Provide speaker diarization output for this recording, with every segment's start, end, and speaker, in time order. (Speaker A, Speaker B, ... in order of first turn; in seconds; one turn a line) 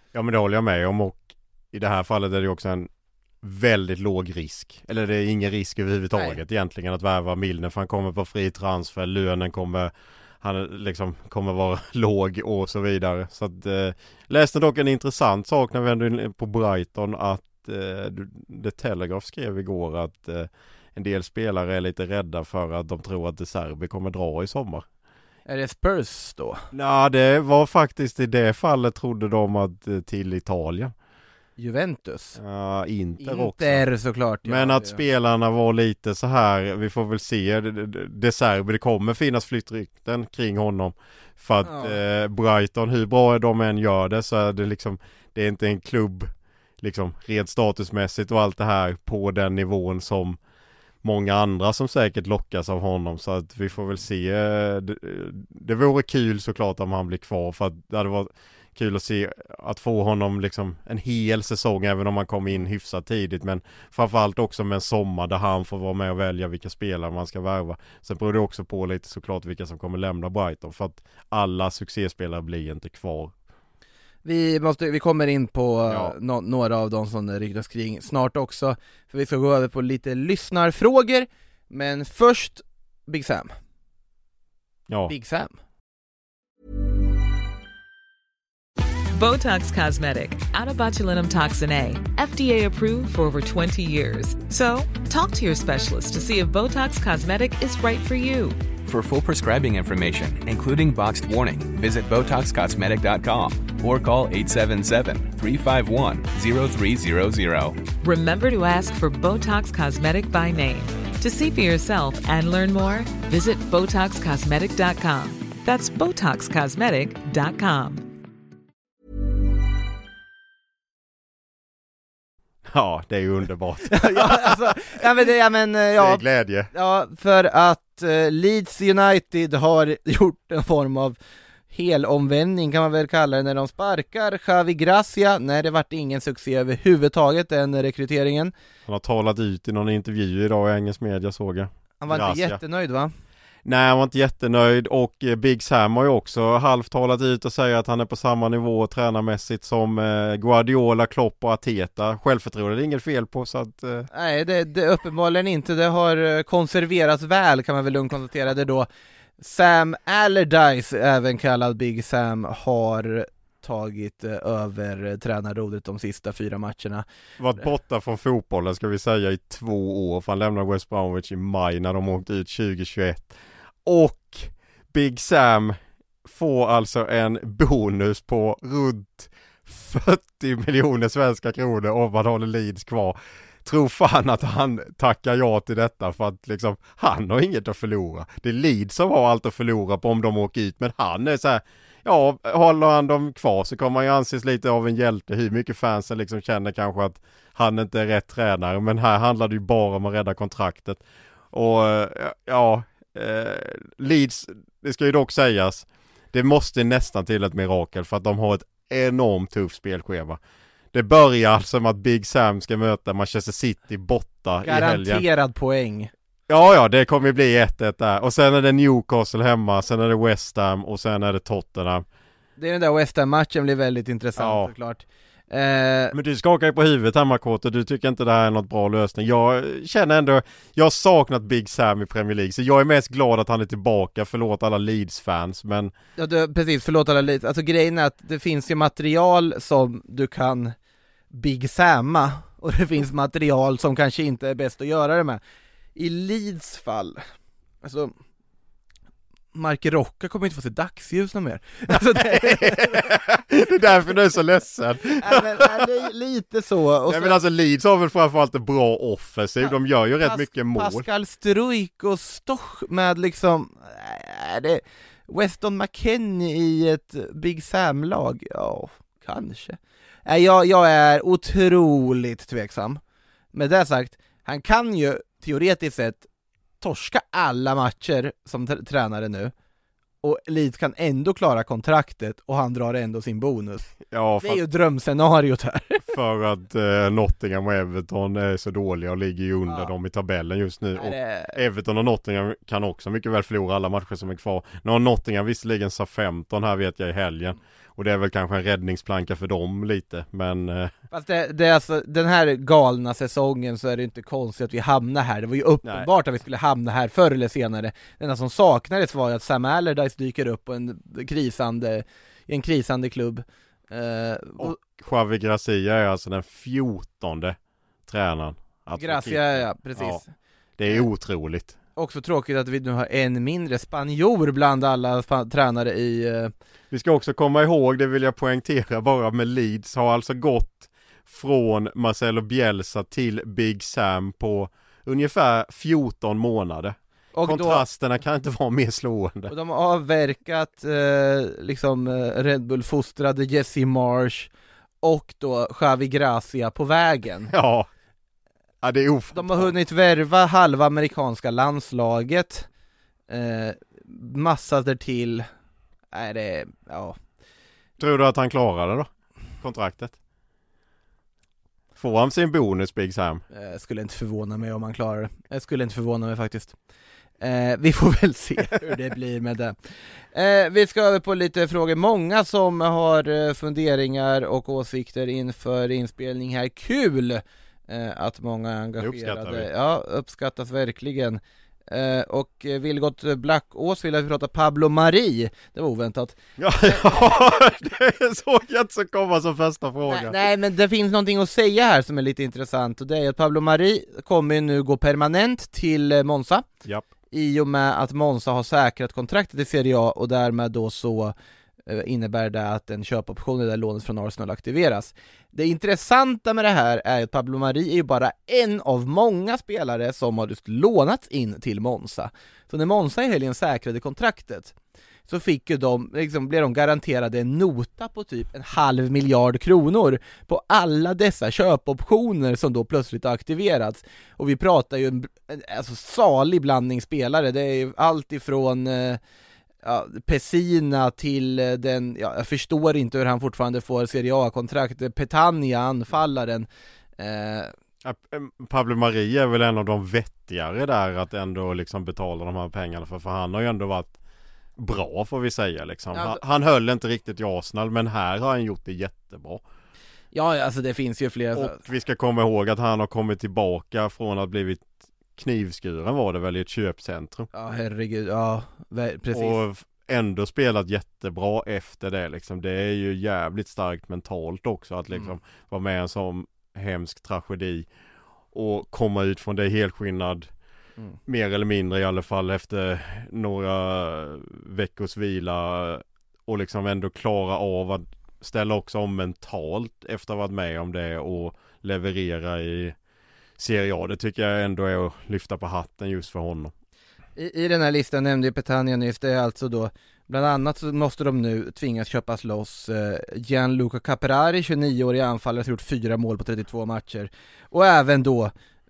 Speaker A: 0.1-2.9
Speaker A: 3.4-24.9
Speaker B: 25.5-26.6
Speaker A: 26.7-30.9
Speaker B: 31.6-32.4
Speaker A: 32.4-33.8
Speaker B: 33.2-35.0
Speaker A: 34.5-46.3
Speaker B: 41.6-42.0
Speaker A: 46.8-50.4
Speaker A: 51.0-73.3
Speaker B: 74.2-83.5
Speaker A: 75.9-76.1
Speaker B: 85.1-85.5
Speaker C: 89.2-98.6
Speaker D: 98.8-107.8
Speaker C: 108.0-118.1
Speaker A: 122.7-125.2
Speaker B: 123.9-131.2
Speaker A: 126.0-126.7
Speaker B: 131.7-138.5
Speaker A: 138.9-142.6
Speaker B: 142.0-143.1
Speaker A: 143.7-154.1
Speaker B: 154.1-158.9
Speaker B: 159.4-167.1
Speaker A: 167.4-173.3
Speaker A: 173.8-210.4
Speaker A: 210.9-215.2
Speaker B: 214.6-216.1
Speaker A: 216.5-222.1
Speaker B: 222.6-226.1
Speaker A: 224.4-224.7
Speaker A: 226.1-235.9
Speaker B: 236.2-240.8
Speaker B: 241.3-245.4
Speaker B: 245.9-247.3
Speaker B: 247.8-248.1
Speaker B: 249.5-253.0
Speaker A: 251.9-255.9
Speaker B: 255.2-257.4
Speaker A: 257.1-261.1
Speaker B: 259.6-273.0
Speaker B: 273.5-276.3
Speaker B: 276.8-279.5
Speaker B: 280.2-286.1
Speaker A: 284.1-284.6
Speaker A: 286.1-300.9
Speaker B: 291.0-291.6
Speaker B: 301.1-314.8
Speaker A: 305.8-306.1
Speaker A: 314.6-320.2
Speaker B: 319.0-320.3
Speaker A: 320.8-321.8
Speaker B: 322.0-326.5
Speaker A: 326.9-339.5
Speaker B: 337.3-337.8
Speaker B: 339.5-344.5
Speaker B: 345.0-347.5
Speaker A: 347.5-347.9
Speaker A: 348.8-349.7
Speaker B: 349.4-352.7
Speaker B: 353.3-355.5
Speaker B: 356.1-357.2
Speaker A: 358.0-359.1
Speaker A: 359.6-360.2
Speaker A: 362.0-363.4
Speaker B: 363.5-366.8
Speaker B: 367.4-369.8
Speaker B: 370.3-387.4
Speaker A: 379.0-379.7
Speaker A: 386.6-390.4
Speaker B: 390.1-396.7
Speaker B: 397.3-401.4
Speaker B: 401.9-414.7
Speaker B: 415.3-429.2
Speaker B: 429.8-436.7
Speaker B: 437.2-437.7
Speaker A: 438.0-444.1
Speaker A: 444.8-449.6
Speaker B: 446.1-446.4
Speaker B: 450.3-451.8
Speaker A: 451.5-457.5
Speaker B: 457.5-459.6
Speaker A: 459.3-467.9
Speaker A: 468.5-470.5
Speaker A: 471.3-483.0
Speaker A: 483.6-486.7
Speaker B: 487.4-498.5